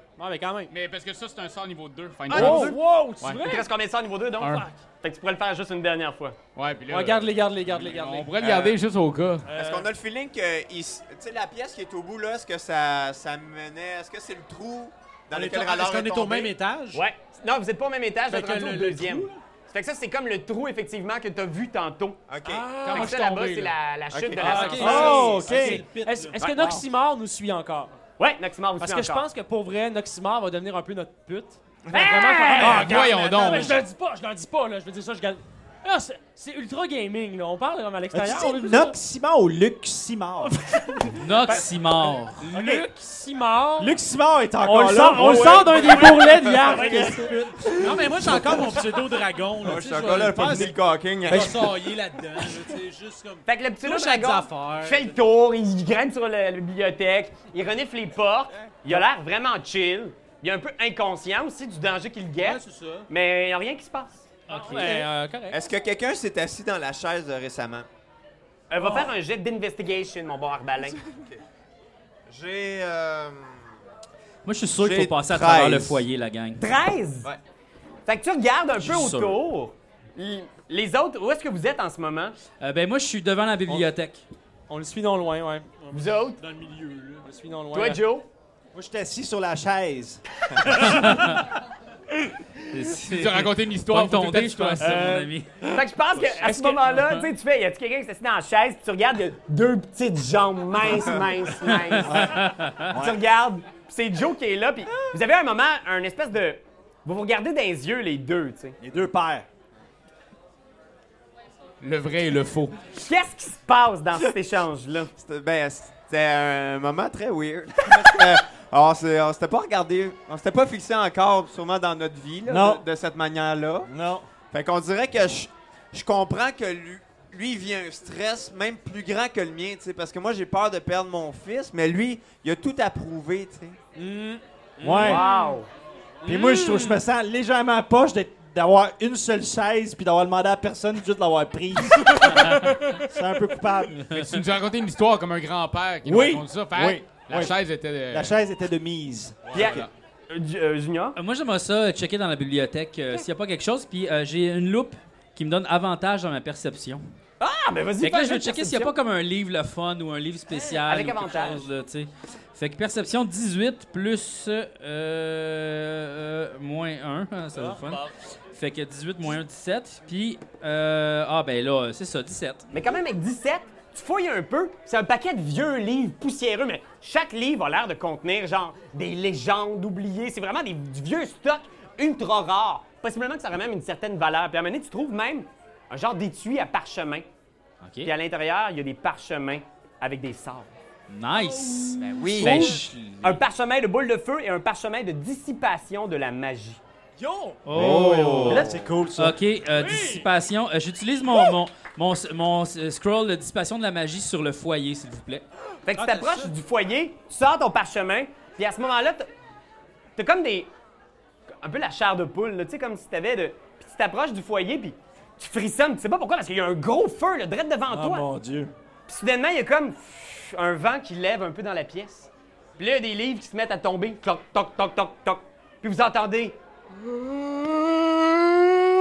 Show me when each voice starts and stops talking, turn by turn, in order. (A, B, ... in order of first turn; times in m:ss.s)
0:00.2-0:00.7 A
0:00.7-0:03.4 B
0:02.3-0:03.7 A
0:02.3-0:02.8 C
0:03.4-0:06.4 C
0:04.4-0:04.7 B
0:06.6-0:09.5 B
0:06.9-0:08.5 A
0:09.4-0:09.9 A
0:09.5-0:16.5 D
0:15.3-0:17.0 E
0:16.9-0:22.2 C
0:18.3-0:19.4 E
0:22.3-0:22.8 D
0:22.4-0:23.3 A
0:22.8-0:23.7 B
0:22.9-0:25.4 C
0:24.1-0:25.2 D
0:24.4-0:28.0 A
0:24.4-0:26.4 E
0:24.8-0:25.8 F
0:26.4-0:26.7 C
0:26.5-0:26.8 F
0:28.2-0:29.3 C
0:28.8-0:38.9 A
0:31.9-0:33.0 D
0:31.9-0:33.2 C
0:32.6-0:33.8 B
0:38.1-0:40.6 F
0:40.4-0:44.0 A
0:41.2-0:42.5 G
0:42.5-0:42.8 E
0:43.8-0:48.8 F
0:44.6-0:47.8 A
0:45.2-0:55.2 E
0:49.6-0:51.8 D
0:51.3-0:51.6 F
0:53.4-1:04.2 C
1:02.4-1:03.1 E
1:04.5-1:05.1 G
1:04.5-1:05.6 A
1:05.5-1:07.9 D
1:08.7-1:11.0 C
1:11.1-1:11.4 D
1:12.3-1:13.7 D
1:14.4-1:16.6 G
1:14.8-1:16.0 D
1:16.6-1:17.3 C
1:18.1-1:22.4 C
1:18.8-1:19.4 G
1:22.6-1:24.2 G
1:24.7-1:25.7 A
1:25.8-1:27.3 E
1:25.9-1:26.4 C
1:27.2-1:28.0 A
1:27.7-1:28.3 C
1:28.7-1:31.1 F
1:30.7-1:31.5 G
1:32.7-1:37.2 G
1:32.9-1:35.0 B
1:34.8-1:35.3 A
1:35.6-1:42.4 C
1:36.4-1:37.0 A
1:42.0-1:43.2 F
1:42.1-1:42.9 G
1:42.9-1:48.8 C
1:48.8-1:49.4 F
1:51.8-1:52.8 B
1:52.9-1:55.1 C
1:55.2-2:03.9 D
2:02.4-2:02.8 F
2:03.9-2:04.3 F
2:04.5-2:13.8 D
2:14.0-2:15.6 A
2:14.8-2:15.2 F
2:15.0-2:15.7 C
2:16.2-2:17.0 A
2:16.2-2:24.2 F
2:24.1-2:28.3 B
2:26.0-2:27.6 F
2:28.1-2:29.8 F
2:29.4-2:29.9 B
2:29.5-2:31.2 C
2:31.2-2:37.0 G
2:37.4-2:38.9 C
2:38.0-2:52.6 G
2:40.5-2:41.7 C
2:52.7-3:07.2 C
3:07.8-3:08.1 G
3:08.0-3:10.7 C
3:11.1-3:13.4 G
3:12.0-3:12.8 D
3:12.4-3:16.8 C
3:17.2-3:17.7 A
3:17.6-3:18.6 G
3:17.7-3:18.7 D
3:17.7-3:19.4 F
3:18.5-3:18.8 C
3:19.2-3:25.4 G
3:19.7-3:20.3 A
3:25.8-3:29.3 C
3:25.9-3:26.5 E
3:30.2-3:30.7 C
3:31.6-3:38.3 C
3:37.9-3:38.7 F
3:39.1-3:46.6 C